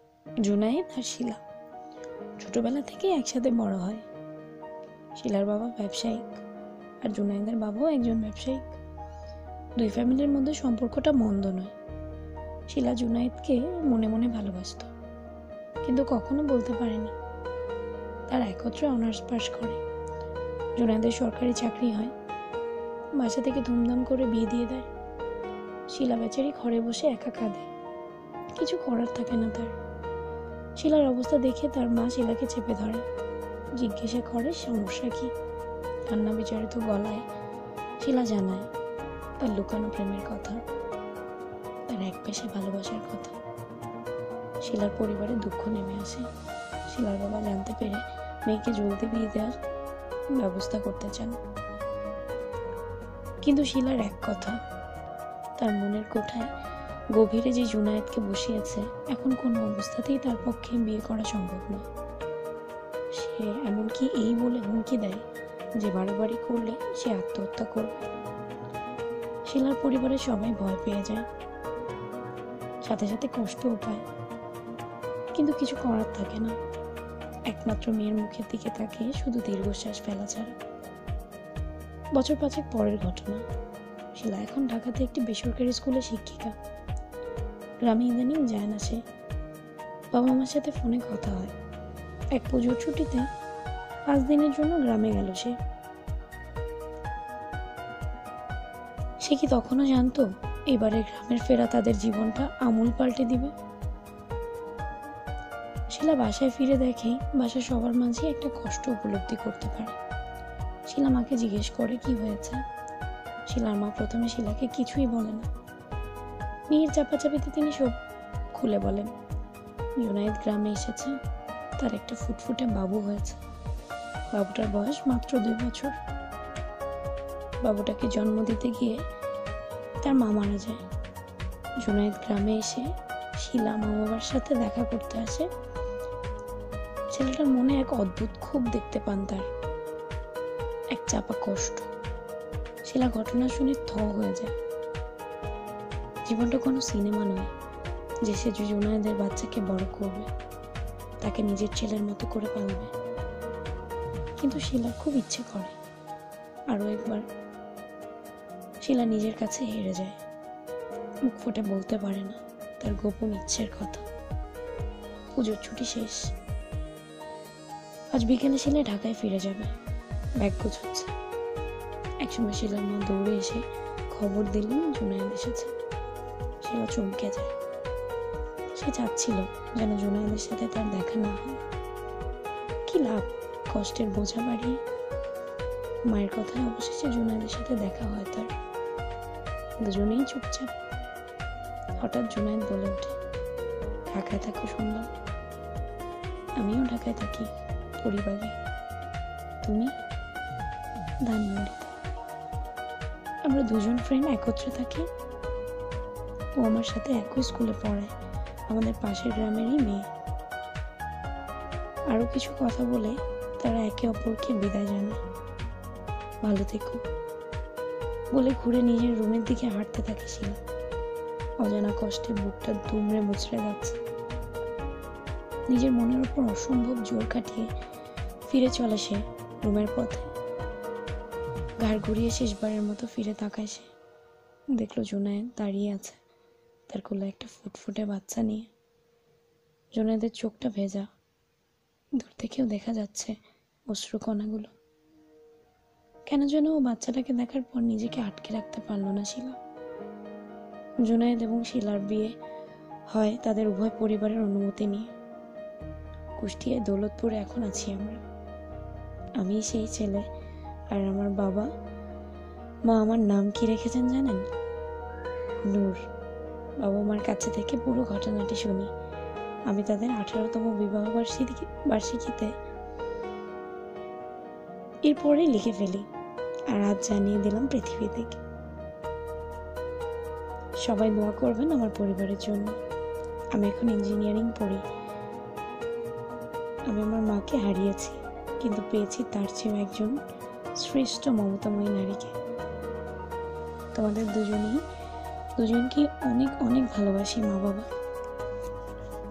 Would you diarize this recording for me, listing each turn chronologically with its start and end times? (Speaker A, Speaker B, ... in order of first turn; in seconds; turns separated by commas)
Speaker A: 0.4-1.4, Speaker A: 2.4-4.0, Speaker A: 5.1-6.4, Speaker A: 7.0-8.7, Speaker A: 9.8-11.7, Speaker A: 12.7-14.9, Speaker A: 15.8-17.1, Speaker A: 18.3-19.8, Speaker A: 20.8-22.1, Speaker A: 23.2-24.9, Speaker A: 25.9-27.7, Speaker A: 28.5-29.7, Speaker A: 30.8-33.0, Speaker A: 33.8-35.3, Speaker A: 36.1-37.2, Speaker A: 38.0-38.7, Speaker A: 39.4-40.6, Speaker A: 41.9-43.3, Speaker A: 44.6-46.2, Speaker A: 46.9-49.5, Speaker A: 50.4-51.4, Speaker A: 53.4-54.6, Speaker A: 55.6-56.5, Speaker A: 57.1-61.8, Speaker A: 63.2-65.2, Speaker A: 65.8-68.0, Speaker A: 69.5-71.2, Speaker A: 72.8-74.0, Speaker A: 75.3-76.5, Speaker A: 77.5-80.5, Speaker A: 82.2-83.4, Speaker A: 84.2-86.5, Speaker A: 87.8-89.0, Speaker A: 90.1-91.5, Speaker A: 92.3-93.3, Speaker A: 94.1-95.5, Speaker A: 99.2-103.5, Speaker A: 105.9-109.9, Speaker A: 110.9-112.6, Speaker A: 113.5-115.5, Speaker A: 116.7-117.9, Speaker A: 118.5-119.1, Speaker A: 120.0-121.2, Speaker A: 121.8-123.4, Speaker A: 124.3-126.0, Speaker A: 127.6-129.0, Speaker A: 130.0-130.8, Speaker A: 131.8-132.8, Speaker A: 133.4-135.5, Speaker A: 137.1-139.4, Speaker A: 140.9-141.9, Speaker A: 142.8-144.5, Speaker A: 146.2-147.5, Speaker A: 148.2-150.3, Speaker A: 151.2-152.9, Speaker A: 154.4-155.8, Speaker A: 156.7-157.2, Speaker A: 158.8-160.2, Speaker A: 161.2-164.0, Speaker A: 165.3-166.2, Speaker A: 168.1-169.7, Speaker A: 170.4-171.1, Speaker A: 172.2-175.7, Speaker A: 176.6-177.5, Speaker A: 178.7-181.6, Speaker A: 182.9-184.8, Speaker A: 186.1-188.5, Speaker A: 189.8-190.7, Speaker A: 192.0-193.1, Speaker A: 194.1-195.1, Speaker A: 196.6-197.5, Speaker A: 198.0-198.5, Speaker A: 199.6-199.9, Speaker A: 201.2-201.9, Speaker A: 203.4-205.1, Speaker A: 206.6-208.1, Speaker A: 208.7-210.0, Speaker A: 212.1-215.2, Speaker A: 216.4-217.0, Speaker A: 218.3-220.6, Speaker A: 221.6-224.0, Speaker A: 225.7-227.7, Speaker A: 228.4-230.3, Speaker A: 231.8-233.9, Speaker A: 234.8-236.2, Speaker A: 236.9-238.7, Speaker A: 239.9-241.1, Speaker A: 242.2-243.3, Speaker A: 243.9-244.7, Speaker A: 246.2-249.6, Speaker A: 251.0-252.3, Speaker A: 253.1-255.1, Speaker A: 256.4-258.2, Speaker A: 259.4-260.3, Speaker A: 260.9-261.7, Speaker A: 262.9-264.4, Speaker A: 265.7-266.0, Speaker A: 266.8-268.9, Speaker A: 269.7-272.5, Speaker A: 275.0-276.1, Speaker A: 276.7-278.4, Speaker A: 280.8-282.8, Speaker A: 283.5-284.8, Speaker A: 286.9-290.1, Speaker A: 290.8-292.3, Speaker A: 293.9-294.8, Speaker A: 295.6-297.9